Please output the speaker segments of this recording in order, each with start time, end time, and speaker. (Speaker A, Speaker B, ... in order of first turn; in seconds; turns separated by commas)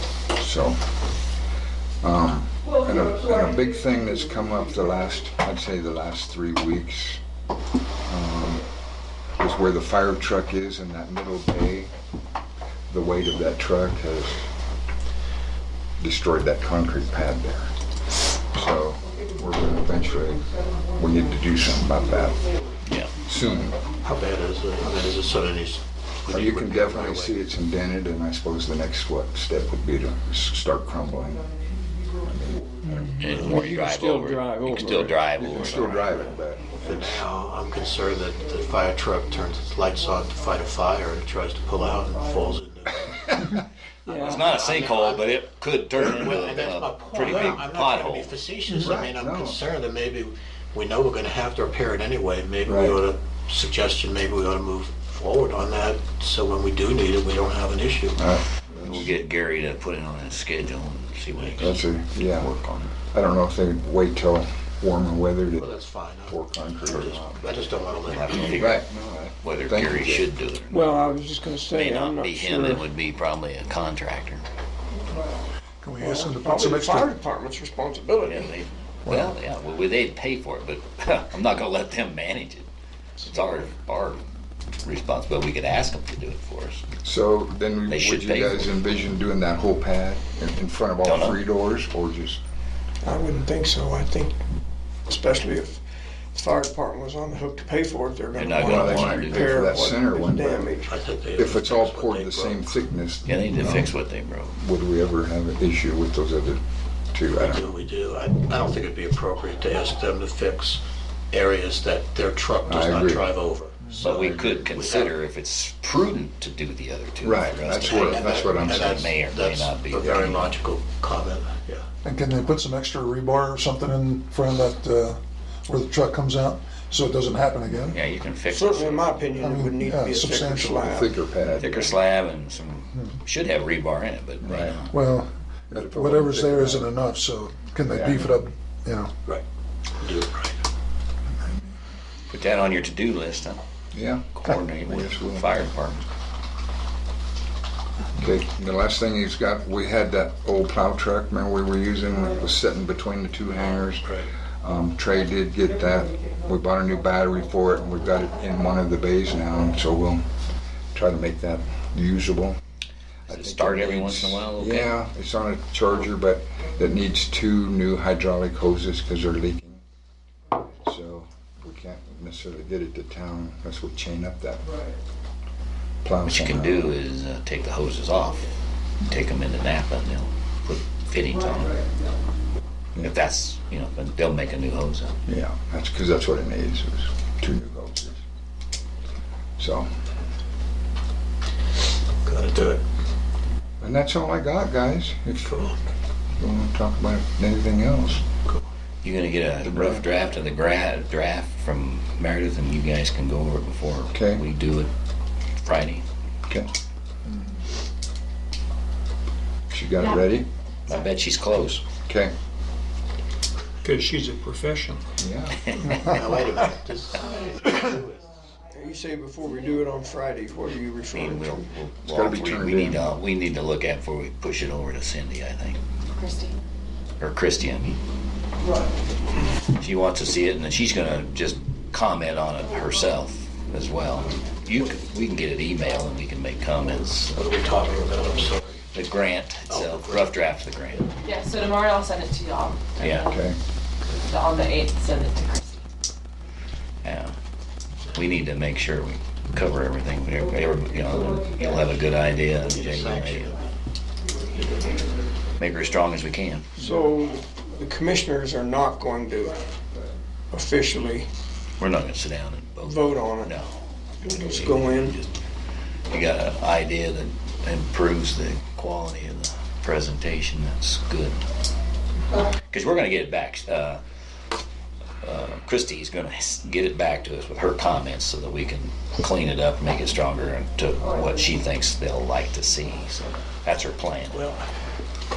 Speaker A: 0.3-0.9, Speaker A: 2.0-7.2, Speaker A: 8.0-8.7, Speaker A: 9.4-11.9, Speaker A: 12.9-14.5, Speaker A: 16.0-17.7, Speaker A: 18.5-22.5, Speaker B: 20.6-20.9, Speaker C: 22.8-23.1, Speaker A: 23.2-23.8, Speaker D: 24.0-27.4, Speaker A: 26.3-31.5, Speaker B: 31.6-32.2, Speaker A: 32.2-32.8, Speaker C: 32.9-36.3, Speaker E: 33.0-35.2, Speaker A: 35.4-36.8, Speaker D: 36.8-43.2, Speaker B: 41.9-42.4, Speaker D: 44.0-45.4, Speaker E: 44.1-44.4, Speaker C: 44.1-48.4, Speaker D: 46.0-58.2, Speaker A: 48.8-49.6, Speaker A: 52.6-53.0, Speaker A: 58.2-59.1, Speaker C: 58.8-61.8, Speaker A: 61.6-67.5, Speaker C: 62.4-62.9, Speaker D: 65.5-68.8, Speaker C: 68.2-68.8, Speaker A: 68.3-70.3, Speaker C: 69.4-71.1, Speaker E: 70.7-72.8, Speaker C: 71.7-74.4, Speaker F: 75.8-77.1, Speaker E: 76.0-78.5, Speaker C: 78.2-82.7, Speaker F: 79.0-79.3, Speaker C: 83.2-84.2, Speaker C: 84.8-86.8, Speaker A: 87.0-92.4, Speaker C: 87.9-88.7, Speaker C: 91.0-91.4, Speaker E: 93.0-94.3, Speaker E: 95.1-95.8, Speaker E: 96.3-101.0, Speaker C: 98.3-99.8, Speaker A: 98.6-100.8, Speaker D: 100.8-102.7, Speaker A: 101.3-103.9, Speaker C: 103.2-104.5, Speaker A: 104.5-107.6, Speaker D: 107.3-115.1, Speaker A: 112.7-113.3, Speaker C: 114.0-120.5, Speaker A: 114.0-114.6, Speaker A: 117.2-119.0, Speaker D: 117.9-121.8, Speaker F: 122.0-128.0, Speaker C: 127.9-129.3, Speaker E: 128.5-131.1, Speaker F: 129.4-130.9, Speaker A: 130.8-131.9, Speaker C: 131.6-134.9, Speaker A: 134.4-134.8, Speaker F: 134.9-139.1, Speaker A: 135.7-136.9, Speaker A: 137.9-138.2, Speaker D: 140.0-140.6, Speaker C: 142.3-143.6, Speaker A: 143.9-145.5, Speaker C: 144.3-146.0, Speaker A: 148.2-160.2, Speaker D: 154.0-154.3, Speaker A: 160.9-162.6, Speaker C: 163.3-164.9, Speaker A: 163.3-169.8, Speaker A: 170.8-174.7, Speaker A: 176.0-176.9, Speaker C: 176.2-181.8, Speaker C: 183.0-185.2, Speaker A: 185.3-188.2, Speaker A: 189.6-189.9, Speaker D: 192.2-192.8, Speaker A: 193.8-195.6, Speaker D: 195.4-195.8, Speaker A: 196.4-198.2, Speaker C: 199.0-204.9, Speaker A: 199.6-200.1, Speaker A: 204.1-204.4, Speaker C: 205.6-206.0, Speaker A: 209.7-210.5, Speaker C: 210.9-211.8, Speaker A: 212.1-212.3, Speaker B: 213.8-215.0, Speaker A: 215.2-215.8, Speaker C: 215.6-216.2, Speaker D: 216.1-218.2, Speaker E: 218.7-221.7, Speaker C: 221.1-225.8, Speaker A: 222.1-223.0, Speaker G: 226.1-226.6, Speaker C: 227.2-228.0, Speaker C: 229.8-237.4, Speaker D: 237.3-238.8, Speaker C: 238.9-241.1, Speaker D: 239.7-240.4, Speaker G: 241.2-243.5, Speaker C: 243.0-243.3, Speaker A: 243.2-243.6, Speaker G: 244.1-245.8, Speaker C: 247.0-247.3, Speaker C: 248.1-253.5, Speaker D: 252.6-253.7, Speaker C: 255.6-256.8, Speaker E: 256.8-259.6, Speaker E: 260.5-261.3, Speaker C: 261.8-265.3, Speaker E: 262.8-263.5, Speaker E: 264.2-265.1, Speaker C: 266.1-271.4, Speaker C: 272.4-274.0, Speaker C: 275.2-284.4, Speaker D: 284.3-284.6